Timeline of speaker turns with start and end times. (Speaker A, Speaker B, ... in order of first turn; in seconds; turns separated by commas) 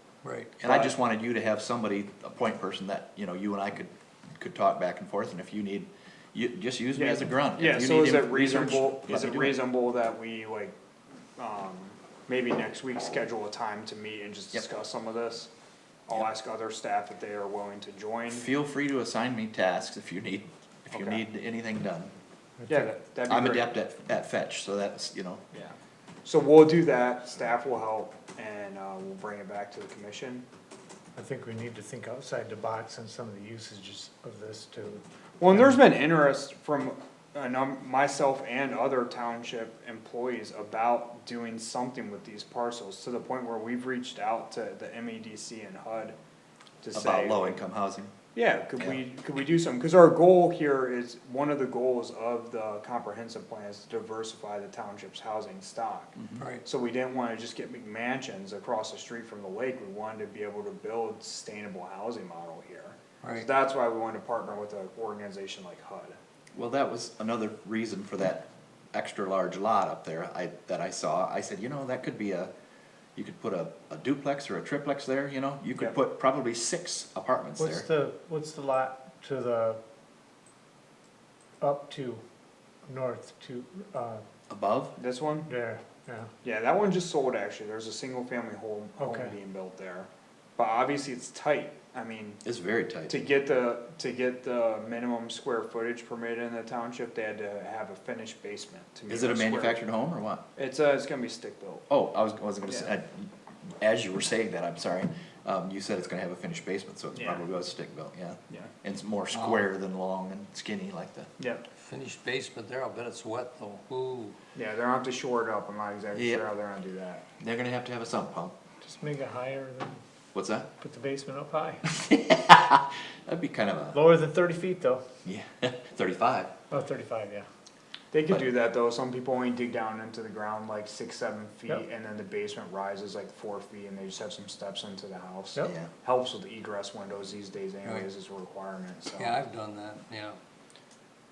Speaker A: 0.2-0.5, Speaker B: 0.6-9.6, Speaker C: 0.6-1.0, Speaker C: 7.0-10.8, Speaker C: 11.4-15.5, Speaker C: 16.1-18.5, Speaker B: 18.3-22.1, Speaker C: 20.9-21.2, Speaker D: 22.6-22.9, Speaker C: 22.7-23.8, Speaker B: 23.3-25.4, Speaker C: 25.5-30.4, Speaker D: 31.2-35.8, Speaker C: 35.4-46.2, Speaker C: 46.8-47.6, Speaker B: 46.9-48.1, Speaker C: 48.4-66.2, Speaker B: 56.2-56.4, Speaker A: 56.4-56.6, Speaker B: 66.5-72.5, Speaker B: 73.2-77.9, Speaker D: 77.6-79.8, Speaker D: 81.6-82.2, Speaker D: 82.9-84.2, Speaker B: 84.5-85.0, Speaker C: 85.0-85.5, Speaker D: 85.5-86.3, Speaker C: 86.4-92.4, Speaker D: 89.0-89.3, Speaker B: 92.4-93.3, Speaker C: 93.1-99.8, Speaker B: 99.1-100.4, Speaker C: 100.6-101.8, Speaker B: 101.9-111.3, Speaker C: 102.7-102.9, Speaker C: 107.2-107.5, Speaker A: 109.3-109.7, Speaker C: 111.4-111.6, Speaker A: 111.8-114.4, Speaker C: 114.5-117.3, Speaker B: 116.1-116.5, Speaker B: 117.4-118.5, Speaker D: 118.8-120.0, Speaker B: 120.3-120.7, Speaker D: 120.8-121.8, Speaker B: 121.9-124.2, Speaker D: 123.9-125.0, Speaker B: 125.2-126.5, Speaker D: 126.7-127.5, Speaker C: 128.1-139.4, Speaker B: 135.6-135.9, Speaker A: 139.2-140.4